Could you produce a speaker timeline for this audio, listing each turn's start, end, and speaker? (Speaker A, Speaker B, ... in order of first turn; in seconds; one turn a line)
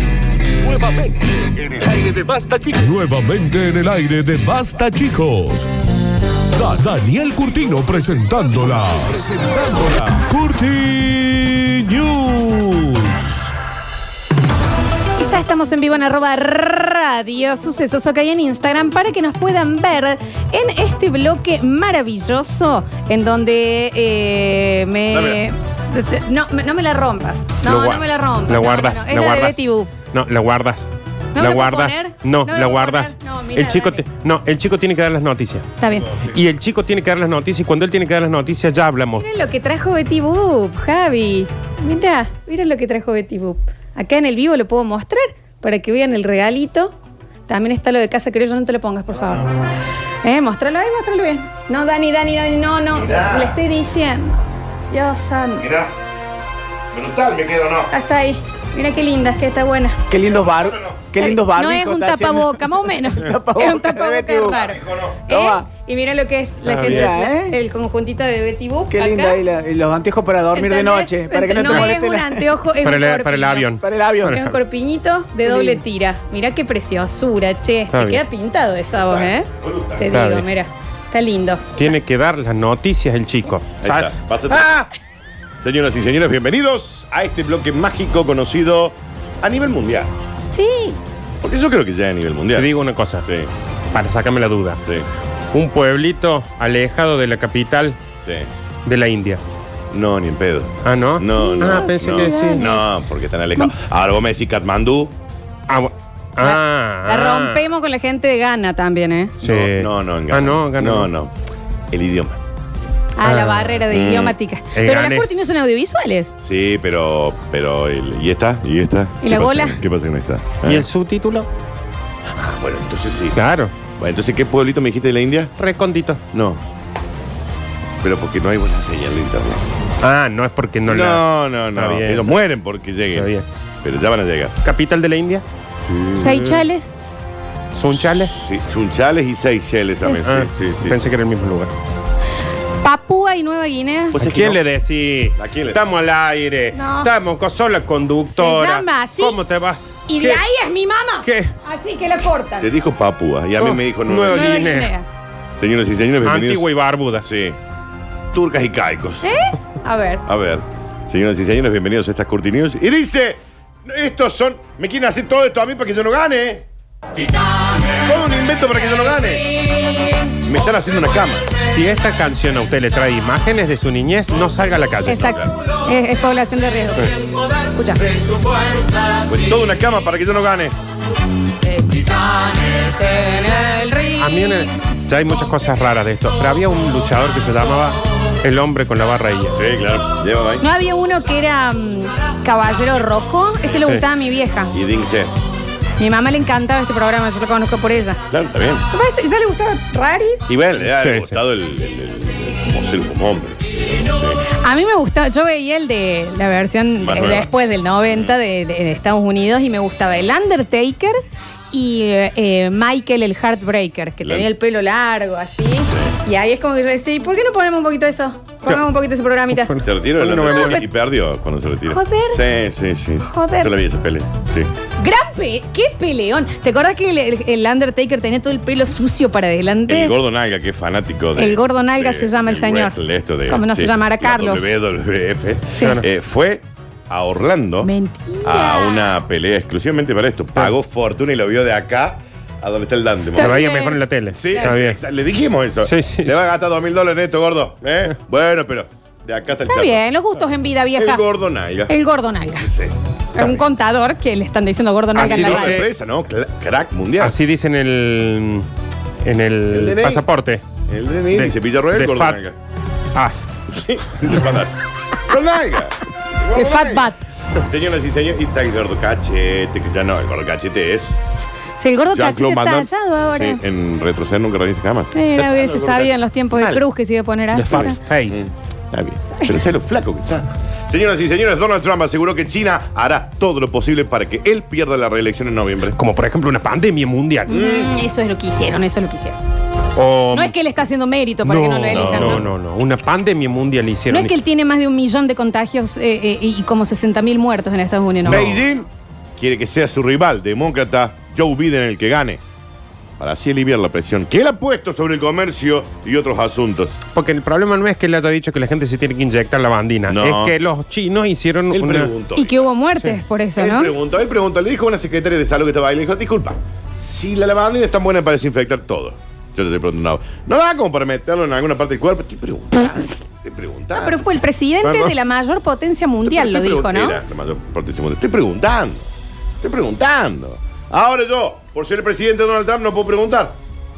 Speaker A: 0.6-5.7
Speaker A: 6.5-13.4
Speaker B: 15.2-29.9
Speaker C: 25.1-25.4
Speaker D: 27.6-35.7
Speaker B: 31.3-34.0
Speaker B: 35.8-36.2
Speaker C: 36.1-36.4
Speaker D: 36.2-39.3
Speaker B: 39.2-46.9
Speaker B: 47.5-49.5
Speaker B: 50.2-55.7
Speaker C: 52.9-53.6
Speaker C: 55.6-56.0
Speaker C: 56.9-57.9
Speaker B: 57.9-60.0
Speaker E: 60.1-64.6
Speaker C: 60.3-61.0
Speaker B: 61.2-69.4
Speaker C: 64.5-65.2
Speaker E: 65.3-65.7
Speaker D: 66.7-67.1
Speaker E: 66.7-67.6
Speaker E: 68.9-72.5
Speaker B: 70.5-81.8
Speaker D: 71.6-71.9
Speaker D: 72.8-74.6
Speaker E: 73.8-74.4
Speaker E: 75.5-75.8
Speaker D: 77.9-78.2
Speaker C: 79.1-80.1
Speaker D: 80.1-80.5
Speaker D: 81.8-84.9
Speaker C: 83.8-84.7
Speaker C: 85.6-90.1
Speaker B: 90.5-91.0
Speaker C: 91.4-92.7
Speaker D: 92.5-93.3
Speaker C: 93.2-93.5
Speaker D: 93.9-94.8
Speaker D: 95.5-98.0
Speaker C: 98.2-98.5
Speaker D: 98.9-99.4
Speaker C: 99.9-105.1
Speaker D: 100.8-102.7
Speaker B: 101.3-102.8
Speaker D: 105.7-107.6
Speaker B: 106.4-109.3
Speaker C: 109.4-111.3
Speaker D: 109.4-111.1
Speaker C: 111.9-112.4
Speaker B: 113.2-116.3
Speaker D: 113.2-113.7
Speaker C: 113.9-114.4
Speaker D: 114.8-115.4
Speaker C: 116.4-120.9
Speaker B: 119.2-119.8
Speaker D: 120.6-121.5
Speaker C: 122.4-123.4
Speaker D: 123.3-123.7
Speaker C: 123.9-125.5
Speaker D: 125.6-126.2
Speaker C: 126.3-126.6
Speaker C: 128.0-129.6
Speaker D: 130.0-132.3
Speaker C: 130.9-133.3
Speaker D: 133.2-133.5
Speaker C: 133.8-134.6
Speaker D: 134.6-135.4
Speaker B: 136.1-136.9
Speaker D: 136.2-136.6
Speaker D: 137.7-138.4
Speaker C: 137.9-141.1
Speaker D: 140.2-141.7
Speaker B: 142.8-144.2
Speaker C: 144.1-144.6
Speaker D: 144.2-150.4
Speaker C: 145.4-145.8
Speaker B: 146.7-147.1
Speaker B: 148.3-149.4
Speaker B: 150.1-152.7
Speaker D: 151.2-151.5
Speaker C: 152.6-154.7
Speaker D: 153.6-154.9
Speaker B: 154.3-155.1
Speaker C: 155.6-156.7
Speaker D: 156.2-157.3
Speaker C: 157.2-157.6
Speaker C: 158.3-159.3
Speaker B: 159.2-160.2
Speaker C: 160.3-166.7
Speaker C: 168.0-169.6
Speaker B: 169.7-170.2
Speaker C: 170.4-171.5
Speaker D: 171.6-175.3
Speaker B: 175.1-178.2
Speaker C: 175.1-175.5
Speaker C: 179.3-180.8
Speaker B: 181.6-184.6
Speaker D: 184.2-189.6
Speaker C: 189.6-190.7
Speaker B: 190.6-194.7
Speaker C: 194.7-195.3
Speaker B: 196.0-198.2
Speaker C: 198.3-198.8
Speaker B: 198.9-200.4
Speaker C: 200.5-204.4
Speaker D: 200.9-201.4
Speaker B: 204.6-211.2
Speaker C: 207.0-207.5
Speaker C: 208.1-208.4
Speaker B: 211.7-219.8
Speaker C: 214.2-214.5
Speaker C: 215.9-216.2
Speaker D: 219.5-220.8
Speaker C: 219.8-224.7
Speaker B: 221.9-222.4
Speaker B: 223.2-223.7
Speaker B: 225.0-230.2
Speaker C: 229.9-237.9
Speaker B: 231.4-233.0
Speaker B: 233.5-234.7
Speaker D: 235.8-236.1
Speaker B: 237.8-239.2
Speaker C: 238.4-243.6
Speaker B: 243.3-244.0
Speaker D: 243.4-245.0
Speaker C: 244.3-250.0
Speaker D: 245.8-246.4
Speaker B: 249.7-251.2
Speaker C: 251.0-251.9
Speaker B: 251.9-252.7
Speaker C: 252.6-252.9
Speaker B: 253.3-255.8
Speaker D: 255.2-255.9
Speaker C: 255.2-257.4
Speaker D: 257.2-258.7
Speaker D: 259.2-260.6
Speaker C: 259.7-260.2
Speaker C: 260.9-262.6
Speaker D: 261.3-262.4
Speaker D: 263.1-263.5
Speaker C: 263.7-271.4
Speaker B: 266.5-267.2
Speaker B: 271.8-273.6
Speaker C: 272.1-276.8
Speaker B: 275.1-278.0
Speaker D: 277.5-278.4
Speaker C: 277.7-286.0
Speaker D: 285.9-287.6
Speaker B: 287.5-289.4
Speaker C: 287.5-288.0
Speaker D: 290.0-290.5
Speaker B: 290.3-292.4
Speaker C: 291.5-292.5
Speaker D: 291.8-294.3
Speaker B: 294.1-298.5
Speaker D: 298.3-298.6
Speaker C: 298.3-302.4
Speaker C: 303.2-307.0
Speaker D: 307.1-312.1
Speaker C: 310.1-310.6
Speaker C: 311.7-312.6
Speaker B: 312.4-313.9
Speaker C: 313.6-324.2
Speaker B: 323.9-327.2
Speaker C: 326.2-329.1
Speaker C: 329.6-333.6